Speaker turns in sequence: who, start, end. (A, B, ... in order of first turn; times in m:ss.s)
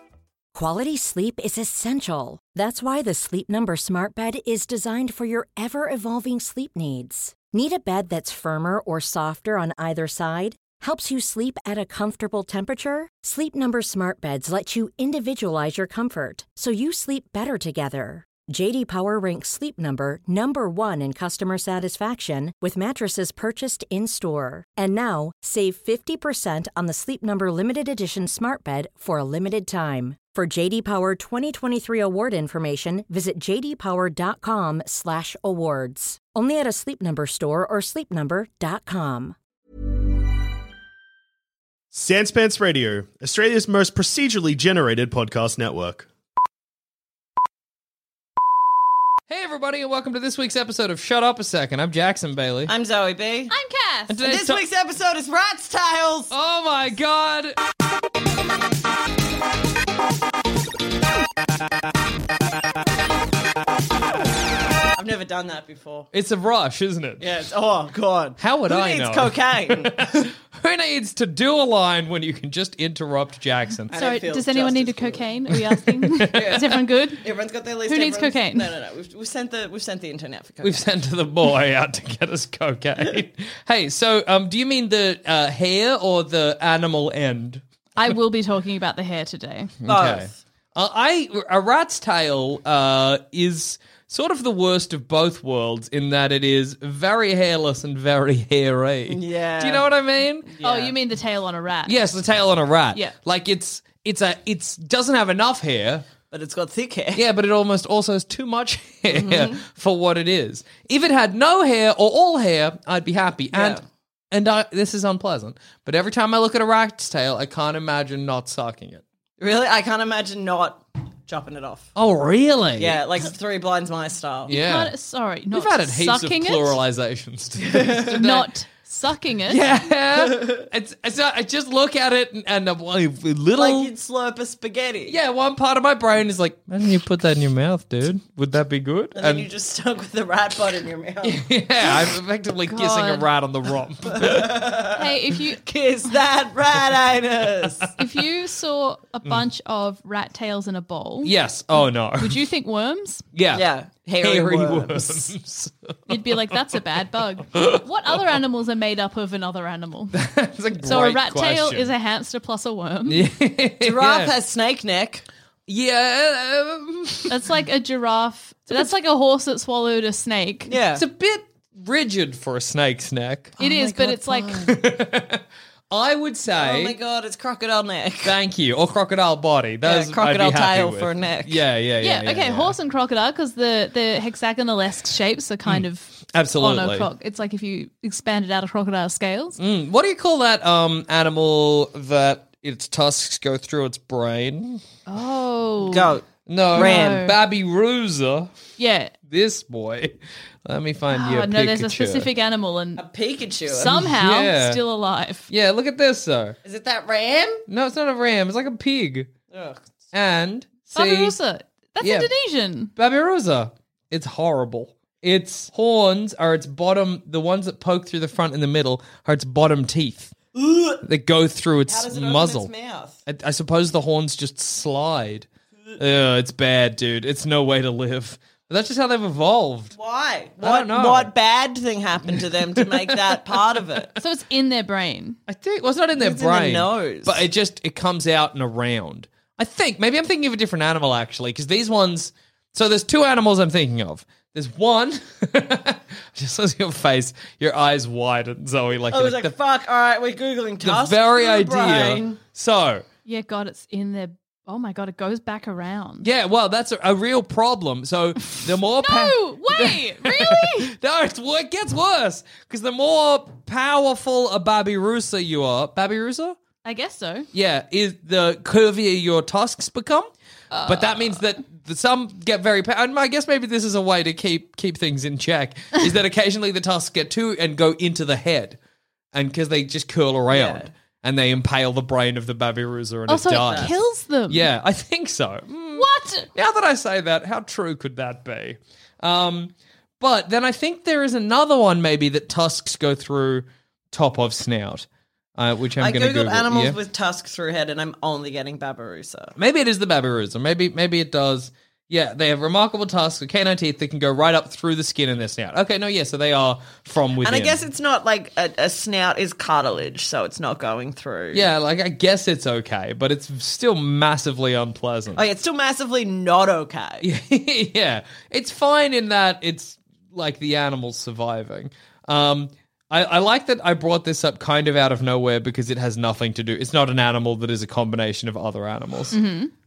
0:00.5-0:39.4 A
0:41.9-0:46.1 B
0:49.3-0:52.7 C
0:52.7-0:53.5 D
0:53.5-0:54.1 E
0:54.1-0:54.6 C
0:54.2-0:56.3 D
0:56.3-0:57.6 C
1:04.9-1:06.1 D
1:06.1-1:07.2 C
1:07.2-1:10.3 D
1:08.4-1:13.9 C
1:13.9-1:15.3 D
1:13.9-1:17.2 E
1:15.7-1:16.7 C
1:16.3-1:20.8 D
1:17.9-1:18.7 E
1:20.6-1:27.6 C
1:28.0-1:29.7 E
1:29.8-1:40.5 C
1:29.9-1:30.4 D
1:39.1-1:39.9 D
1:40.4-1:40.9 D
1:40.6-1:41.9 E
1:41.9-1:46.0 C
1:46.3-1:47.2 D
1:47.1-1:53.8 C
1:49.1-1:49.6 D
1:53.5-1:53.8 D
1:54.3-1:59.0 C
1:59.4-2:01.9 D
2:01.9-2:03.0 C
2:02.8-2:04.5 D
2:04.5-2:04.9 C
2:04.5-2:06.8 E
2:05.5-2:08.5 C
2:07.6-2:08.1 D
2:08.1-2:09.6 E
2:09.5-2:13.9 C
2:10.1-2:10.6 D
2:13.6-2:15.2 D
2:15.1-2:19.5 C
2:19.1-2:21.4 D
2:21.2-2:24.6 C
2:22.7-2:23.2 E
2:24.1-2:27.9 D
2:24.9-2:25.6 E
2:28.0-2:31.3 E
2:31.2-2:32.4 C
2:32.2-2:33.2 E
2:33.3-2:33.6 C
2:33.5-2:35.3 D
2:34.2-2:36.6 C
2:36.1-2:40.2 E
2:37.5-2:37.8 C
2:40.1-2:41.9 C
2:40.8-2:43.2 E
2:43.1-2:44.3 C
2:43.8-2:45.2 D
2:45.7-2:47.3 C
2:47.3-2:50.7 E
2:50.7-2:51.0 D
2:50.9-2:57.0 C
2:53.6-2:54.7 E
2:56.6-2:58.3 D
2:58.2-3:02.7 C
2:59.8-3:01.6 D
3:02.0-3:09.6 E
3:05.7-3:07.1 C
3:09.6-3:14.8 C
3:15.0-3:16.1 E
3:15.9-3:17.2 D
3:16.5-3:18.5 C
3:16.7-3:17.3 E
3:18.8-3:19.1 E
3:19.3-3:22.3 C
3:21.1-3:23.0 E
3:23.0-3:24.0 D
3:23.7-3:25.5 E
3:23.9-3:24.8 C
3:25.5-3:26.6 C
3:26.6-3:27.6 D
3:27.7-3:29.3 C
3:29.5-3:29.8 D
3:30.1-3:31.4 C
3:30.9-3:32.9 E
3:32.0-3:32.3 C
3:33.0-3:40.3 C
3:40.5-3:41.0 D
3:41.0-3:42.7 C
3:41.8-3:43.2 D
3:43.2-3:49.9 C
3:49.9-3:54.1 D
3:50.6-3:51.3 C
3:52.3-3:53.4 C
3:54.2-3:55.4 E
3:55.5-4:09.5 C
3:56.2-3:57.4 D
4:09.1-4:12.4 D
4:10.8-4:13.0 C
4:13.2-4:16.3 E
4:16.2-4:26.6 C
4:19.0-4:20.9 E
4:26.8-4:27.5 E
4:27.5-4:30.3 C
4:30.7-4:31.4 E
4:30.8-4:38.8 C
4:39.3-4:55.0 C
4:40.5-4:40.9 D
4:43.3-4:44.7 E
4:43.6-4:43.9 D
4:45.9-4:46.5 E
4:55.6-4:57.0 C
4:56.0-4:59.5 D
4:59.6-5:07.8 C
5:07.4-5:11.7 D
5:11.5-5:15.4 C
5:15.4-5:17.2 D
5:17.2-5:29.4 C
5:29.3-5:29.7 E